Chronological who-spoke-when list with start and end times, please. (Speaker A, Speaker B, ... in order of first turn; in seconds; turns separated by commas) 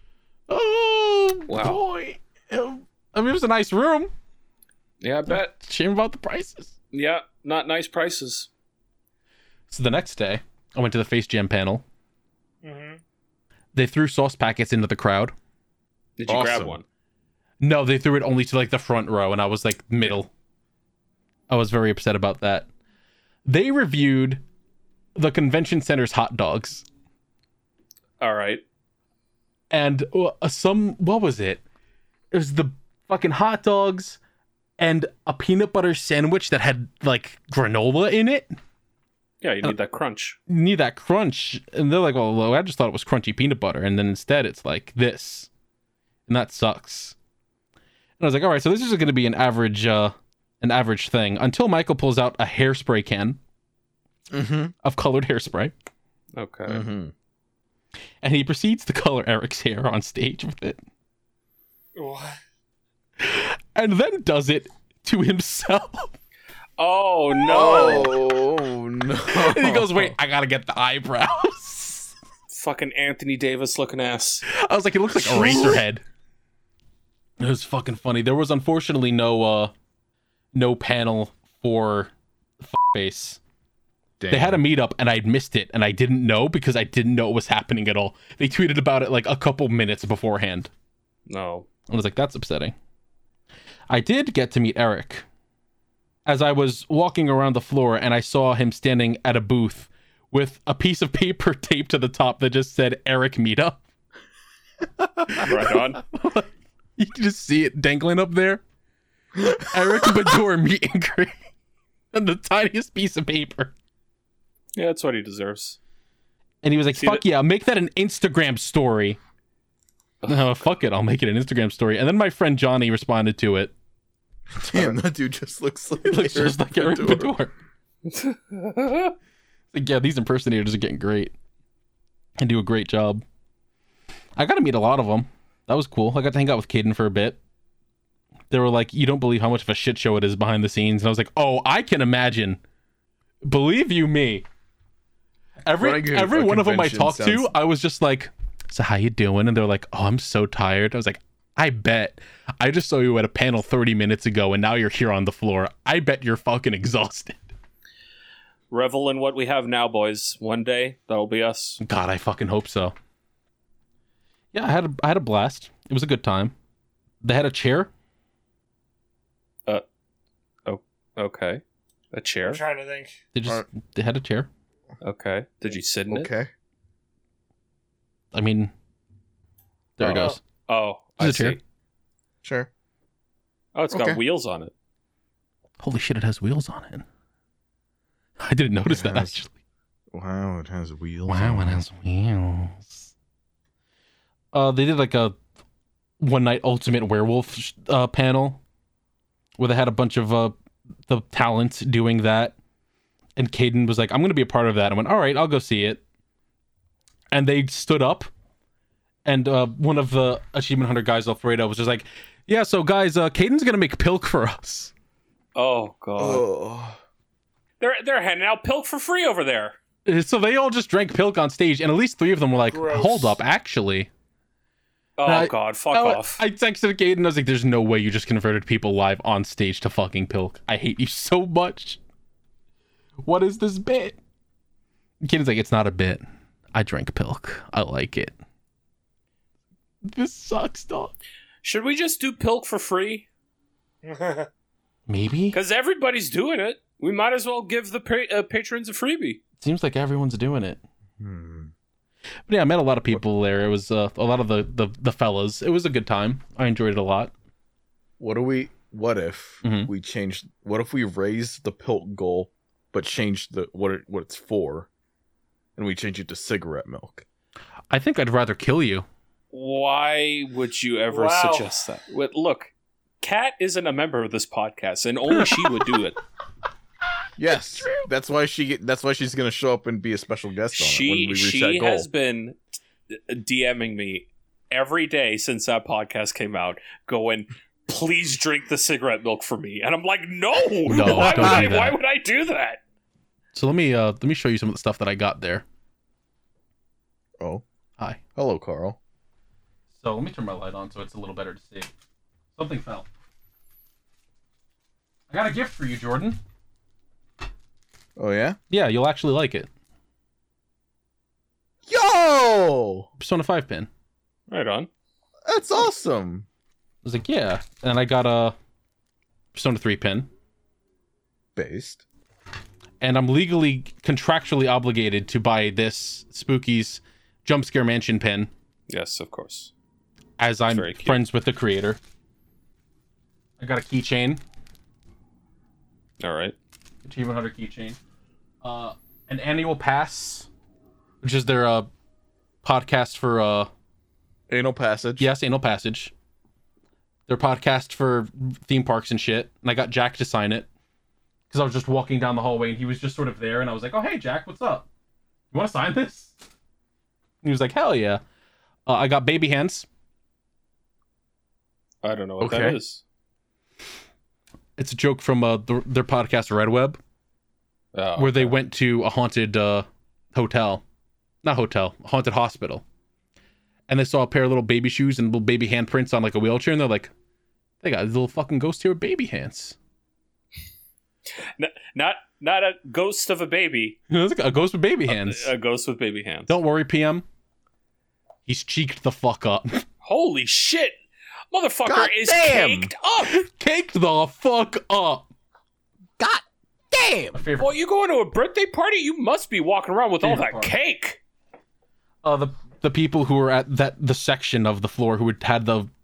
Speaker A: 0.5-4.1, Speaker B: 1.5-1.8, Speaker B: 5.0-5.5, Speaker A: 5.3-6.7, Speaker B: 6.9-8.5, Speaker A: 9.7-11.8, Speaker C: 12.6-13.0, Speaker A: 13.7-15.3, Speaker B: 16.2-16.8, Speaker D: 16.3-16.8, Speaker A: 17.6-20.3, Speaker A: 21.5-22.7, Speaker A: 23.5-24.4, Speaker A: 25.2-26.9, Speaker B: 28.2-28.6, Speaker A: 29.7-31.6, Speaker A: 32.3-34.2, Speaker A: 34.8-38.5, Speaker B: 39.4-40.4, Speaker A: 40.5-45.5, Speaker A: 46.3-47.1, Speaker A: 48.2-53.4, Speaker D: 54.3-54.7, Speaker A: 54.8-55.7, Speaker B: 56.4-56.8, Speaker D: 56.7-57.1, Speaker A: 58.2-60.8, Speaker C: 62.0-62.4, Speaker A: 63.2-66.1, Speaker B: 66.8-68.1, Speaker D: 67.4-70.2, Speaker A: 69.3-72.1, Speaker B: 72.5-74.4, Speaker A: 74.5-76.0, Speaker D: 75.2-75.8, Speaker A: 77.4-79.7, Speaker A: 80.5-83.4, Speaker D: 84.2-84.6, Speaker A: 84.3-90.7, Speaker B: 91.3-91.7, Speaker A: 91.9-92.7, Speaker A: 93.9-95.2, Speaker A: 96.3-103.8, Speaker A: 105.3-108.6, Speaker B: 105.4-106.0, Speaker A: 109.5-111.3, Speaker A: 112.1-113.7, Speaker B: 114.8-115.8, Speaker A: 116.6-119.2, Speaker B: 116.9-117.2, Speaker A: 120.3-123.7, Speaker D: 124.6-127.3, Speaker A: 126.0-127.5, Speaker B: 128.1-129.2, Speaker A: 129.7-131.3, Speaker A: 132.4-133.2, Speaker A: 134.4-137.4, Speaker A: 138.5-142.6, Speaker A: 143.4-144.4, Speaker A: 145.7-157.4, Speaker D: 145.8-147.5, Speaker B: 158.7-161.8, Speaker A: 161.8-162.9, Speaker A: 164.5-166.5, Speaker A: 167.2-167.9, Speaker B: 170.7-172.6, Speaker C: 172.5-173.2, Speaker A: 173.3-174.5, Speaker B: 175.0-176.3, Speaker D: 176.1-176.5, Speaker A: 178.3-178.7, Speaker A: 180.0-180.4, Speaker B: 180.7-181.6, Speaker A: 181.2-181.6, Speaker D: 182.4-182.7, Speaker B: 183.8-184.7, Speaker D: 183.9-184.2, Speaker A: 185.8-187.1, Speaker A: 188.4-189.5, Speaker D: 188.9-189.3, Speaker D: 190.1-191.8, Speaker A: 191.3-193.1, Speaker A: 194.5-195.4, Speaker A: 196.2-198.6, Speaker A: 199.6-200.6, Speaker A: 201.1-202.6, Speaker A: 203.4-206.0, Speaker A: 207.3-208.3, Speaker A: 209.2-214.9, Speaker B: 215.6-216.4, Speaker D: 216.2-217.0, Speaker B: 217.8-219.8, Speaker A: 220.1-224.1, Speaker C: 222.7-223.4, Speaker B: 225.2-226.4, Speaker A: 225.2-232.0, Speaker A: 233.2-234.2, Speaker A: 235.2-238.3, Speaker A: 240.0-241.2, Speaker B: 241.6-243.3, Speaker C: 244.0-244.5, Speaker A: 245.1-245.6, Speaker B: 245.5-249.4, Speaker A: 249.6-250.8, Speaker D: 251.2-251.7, Speaker A: 252.5-257.3, Speaker D: 258.2-264.9, Speaker A: 259.6-259.9, Speaker D: 265.8-267.2, Speaker A: 267.9-269.1, Speaker B: 269.5-276.2, Speaker C: 271.1-271.7, Speaker D: 277.4-282.1, Speaker A: 277.7-278.1, Speaker B: 280.7-292.8, Speaker A: 290.9-292.0, Speaker D: 290.9-291.7, Speaker A: 293.5-295.6, Speaker D: 298.4-299.0, Speaker A: 299.9-301.9, Speaker A: 302.6-303.1, Speaker A: 305.3-306.4, Speaker D: 308.2-308.6, Speaker A: 308.7-309.7, Speaker D: 311.9-313.1, Speaker A: 313.2-313.9, Speaker B: 314.5-314.9, Speaker D: 315.5-316.5, Speaker A: 317.0-318.6, Speaker A: 319.5-320.3, Speaker D: 321.6-322.0, Speaker A: 323.0-328.5, Speaker B: 328.9-329.7, Speaker A: 330.4-332.0, Speaker B: 330.7-331.2, Speaker A: 333.6-334.4, Speaker B: 336.2-336.6, Speaker A: 337.0-338.0, Speaker A: 338.6-340.5, Speaker A: 341.2-341.9, Speaker A: 342.6-343.7, Speaker D: 344.5-345.3, Speaker A: 345.2-346.1, Speaker A: 347.3-350.7, Speaker A: 351.5-354.9, Speaker A: 355.5-356.4, Speaker A: 357.4-358.2, Speaker A: 358.9-359.9, Speaker B: 362.0-363.0, Speaker D: 362.4-362.8, Speaker A: 364.8-367.0, Speaker B: 367.9-368.6, Speaker A: 368.2-370.8, Speaker A: 371.4-372.8, Speaker A: 373.9-377.1, Speaker A: 377.8-379.8, Speaker B: 381.6-384.0, Speaker A: 384.1-385.5, Speaker B: 385.1-386.6, Speaker A: 386.5-387.2, Speaker A: 388.5-389.8, Speaker B: 390.0-391.0, Speaker B: 391.5-393.4, Speaker D: 391.9-392.9, Speaker A: 393.3-395.3, Speaker D: 396.2-397.4, Speaker A: 397.3-397.7, Speaker B: 397.6-401.2, Speaker A: 400.2-400.7, Speaker A: 402.2-405.9